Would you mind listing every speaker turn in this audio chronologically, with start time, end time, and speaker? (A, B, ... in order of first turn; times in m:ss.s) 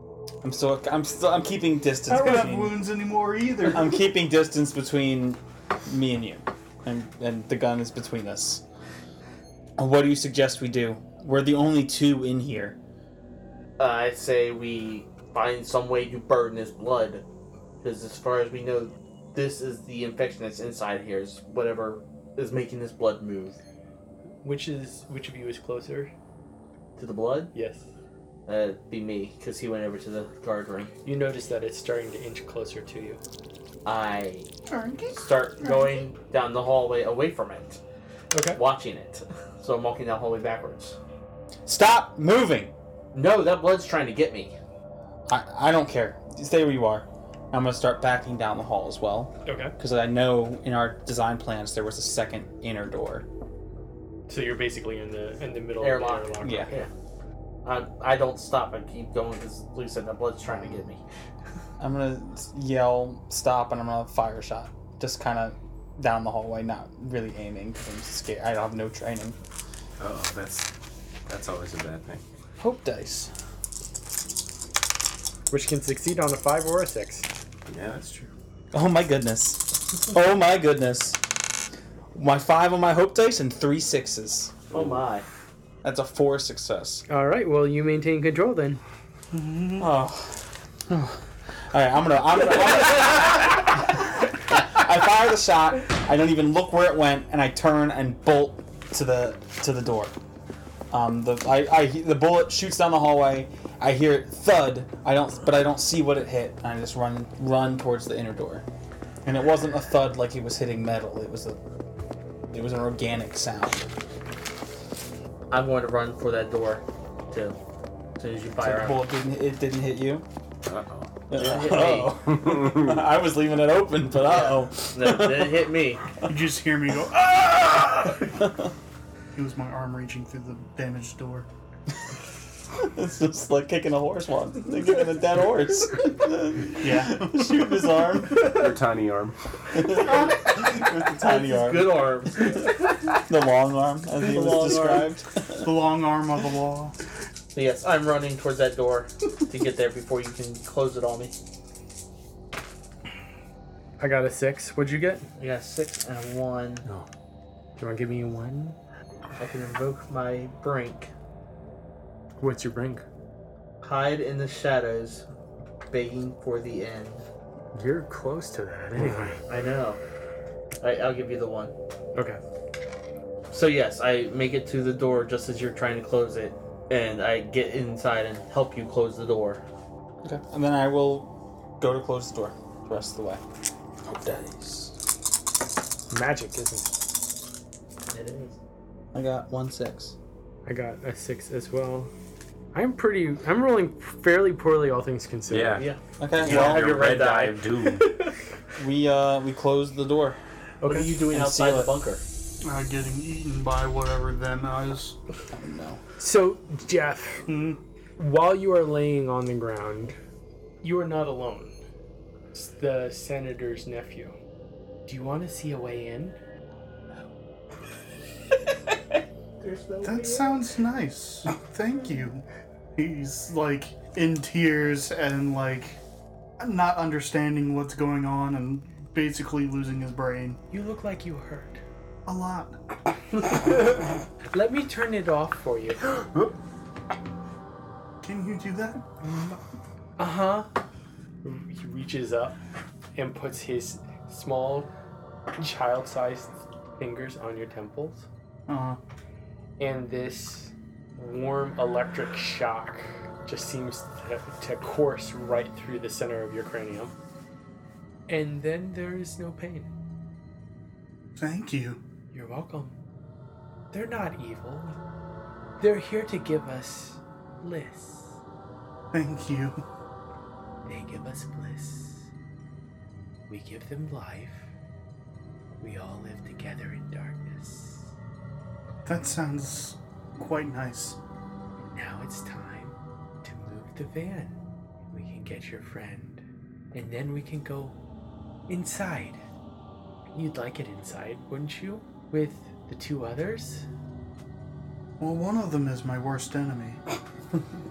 0:00.4-0:02.8 A
0:02.1-0:04.1 B
0:03.6-0:08.6 A
0:09.8-0:12.8 A
0:13.8-0:17.2 C
0:17.8-0:23.6 C
0:24.4-0:26.1 D
0:27.0-0:27.5 C
0:27.5-0:27.8 D
0:28.4-0:30.9 C
0:31.0-0:33.2 D
0:33.8-0:34.5 C
0:34.7-0:36.0 B
0:35.1-0:37.8 C
0:38.3-0:38.6 D
0:38.5-0:41.0 C
0:41.6-0:42.7 A
0:43.1-0:44.5 C
0:45.3-0:53.2 A
0:49.4-0:49.7 D
0:54.3-0:56.8 D
0:55.8-0:56.9 C
0:56.4-0:56.7 A
0:57.6-1:01.0 C
1:01.8-1:09.4 A
1:10.0-1:10.7 E
1:11.3-1:12.2 E
1:12.6-1:13.3 A
1:15.5-1:17.3 D
1:17.7-1:18.3 E
1:18.7-1:21.2 A
1:22.1-1:24.5 A
1:24.7-1:25.2 C
1:24.7-1:25.0 E
1:25.8-1:27.0 A
1:27.1-1:28.8 D
1:29.3-1:29.9 B
1:29.8-1:40.1 A
1:40.9-1:48.6 A
1:49.2-1:51.6 A
1:52.5-1:53.9 A
1:55.5-1:57.6 C
1:58.2-1:59.0 C
1:58.6-2:00.2 A
2:00.6-2:01.1 E
2:01.3-2:05.6 A
2:01.3-2:02.1 C
2:02.3-2:03.0 E
2:04.2-2:06.2 C
2:06.2-2:08.2 B
2:09.3-2:11.5 B
2:12.8-2:18.6 A
2:16.8-2:17.4 B
2:18.4-2:19.4 E
2:19.7-2:25.7 A
2:21.1-2:22.8 C
2:24.2-2:25.1 C
2:25.6-2:26.9 B
2:27.5-2:31.3 C
2:34.0-2:35.3 D
2:35.4-2:36.8 C
2:37.8-2:38.8 D
2:39.4-2:41.1 C
2:42.4-2:43.0 D
2:43.8-2:45.2 C
2:45.9-2:47.2 C
2:47.7-2:49.4 D
2:49.5-2:50.0 C
2:50.8-2:51.7 C
2:53.5-2:59.6 C
3:00.2-3:03.4 A
3:04.1-3:04.9 A
3:06.1-3:07.0 D
3:08.1-3:08.6 C
3:09.1-3:10.2 A
3:10.6-3:12.1 D
3:12.7-3:15.8 D
3:15.5-3:18.1 E
3:15.8-3:17.7 C
3:16.2-3:17.0 A
3:18.8-3:20.4 A
3:20.8-3:21.1 D
3:20.8-3:22.2 C
3:21.3-3:22.0 A
3:22.6-3:25.2 B
3:25.5-3:26.0 A
3:26.2-3:27.5 D
3:27.5-3:27.8 B
3:28.2-3:30.2 D
3:30.8-3:31.8 D
3:32.5-3:34.3 D
3:35.1-3:36.4 D
3:39.6-3:40.7 C
3:40.0-3:42.4 B
3:43.0-3:46.0 B
3:46.6-3:50.6 B
3:50.7-3:51.8 D
3:52.2-3:52.8 B
3:54.5-3:56.1 D
3:58.2-3:59.1 B
4:00.2-4:00.7 D
4:01.4-4:02.6 D
4:03.2-4:04.9 D
4:05.6-4:08.3 D
4:08.7-4:09.0 B
4:09.8-4:17.1 D
4:18.3-4:19.9 D
4:21.4-4:22.0 B
4:22.3-4:22.9 D
4:23.9-4:25.0 D
4:25.8-4:28.3 D
4:29.1-4:29.8 B
4:30.8-4:32.2 D
4:33.5-4:34.7 D
4:35.8-4:38.1 D
4:39.0-4:41.2 B
4:41.8-4:44.6 D
4:45.1-4:46.4 D
4:46.9-4:48.0 D
4:48.7-4:49.4 D
4:50.3-4:53.9 D
4:55.2-4:57.0 B